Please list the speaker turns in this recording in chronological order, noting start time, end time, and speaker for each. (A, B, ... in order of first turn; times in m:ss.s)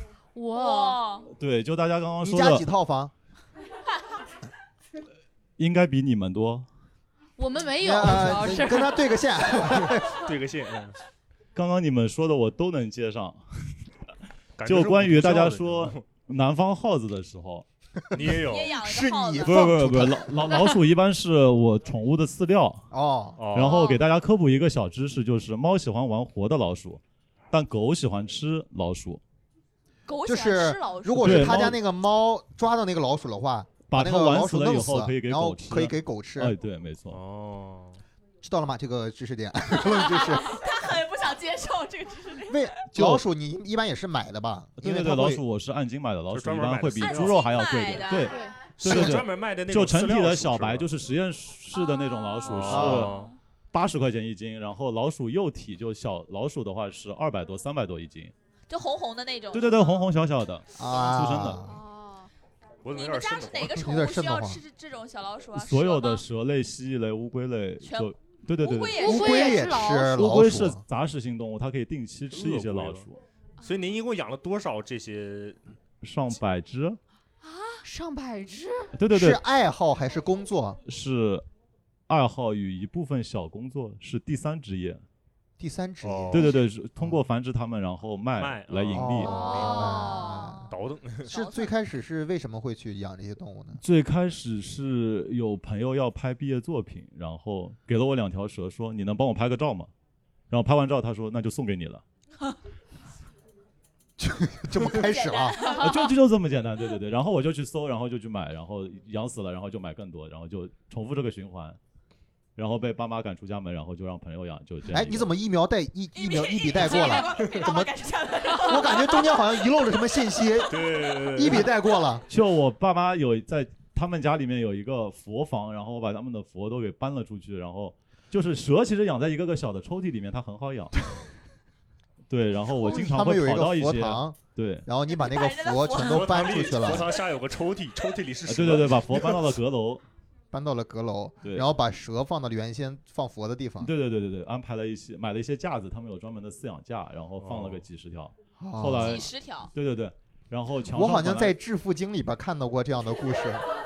0:00.4-0:01.1 A
0:00.5-0:01.3 B
0:01.3-0:02.6 C
0:02.2-0:03.1 D
0:05.6-0:06.7 C
0:07.4-0:09.0 A
0:07.8-0:10.2 D
0:09.7-0:11.0 E
0:11.6-0:13.4 C
0:14.6-0:16.0 E
0:14.7-0:17.7 C
0:18.1-0:18.8 E
0:18.2-0:20.4 D
0:18.4-0:19.8 B
0:19.4-0:22.9 C
0:22.9-0:23.4 D
0:23.4-0:23.9 E
0:23.5-0:29.2 C
0:23.6-0:24.0 B
0:30.1-0:31.7 B
0:30.2-0:36.6 D
0:31.2-0:31.8 C
0:33.9-0:37.2 C
0:37.1-0:38.0 E
0:38.4-0:40.6 D
0:40.1-0:42.7 B
0:42.5-0:45.4 D
0:42.9-0:43.2 C
0:44.8-0:53.2 C
0:46.3-0:47.4 E
0:47.0-0:48.4 B
0:48.3-0:48.6 A
0:48.8-0:50.9 E
0:48.9-0:49.1 D
0:51.7-0:53.3 B
0:52.4-0:53.3 E
0:52.7-0:53.1 D
0:53.7-0:58.3 C
0:58.7-1:00.1 B
0:59.5-1:01.6 C
1:00.8-1:01.8 D
1:01.6-1:02.3 A
1:02.8-1:03.9 E
1:02.9-1:06.2 B
1:03.8-1:04.6 D
1:05.5-1:09.1 C
1:07.8-1:09.6 B
1:09.0-1:10.2 A
1:09.0-1:10.8 D
1:10.1-1:13.2 C
1:12.3-1:13.1 E
1:13.6-1:15.6 E
1:16.0-1:17.0 C
1:17.5-1:17.8 B
1:17.8-1:19.0 A
1:19.0-1:19.4 C
1:19.1-1:20.8 D
1:20.9-1:21.4 C
1:22.1-1:25.0 C
1:25.6-1:27.2 D
1:26.0-1:26.6 E
1:26.3-1:29.4 C
1:28.4-1:30.1 E
1:28.9-1:30.7 D
1:29.2-1:30.7 A
1:29.4-1:30.0 B
1:30.7-1:31.3 E
1:31.3-1:31.7 B
1:31.3-1:33.8 D
1:33.8-1:39.9 C
1:40.5-1:42.0 C
1:44.2-1:45.8 D
1:45.0-1:46.1 B
1:45.7-1:51.8 C
1:52.6-1:55.3 C
1:54.9-1:57.9 D
1:56.2-1:59.4 B
1:58.6-2:02.2 D
2:00.7-2:01.7 E
2:02.3-2:10.9 C
2:12.3-2:14.9 C
2:12.8-2:17.1 D
2:15.1-2:16.5 B
2:15.9-2:19.6 E
2:18.5-2:20.0 C
2:20.5-2:23.9 D
2:21.4-2:21.7 C
2:23.8-2:31.6 C
2:27.4-2:27.8 E
2:28.6-2:29.3 D
2:29.0-2:29.7 B
2:30.9-2:33.6 D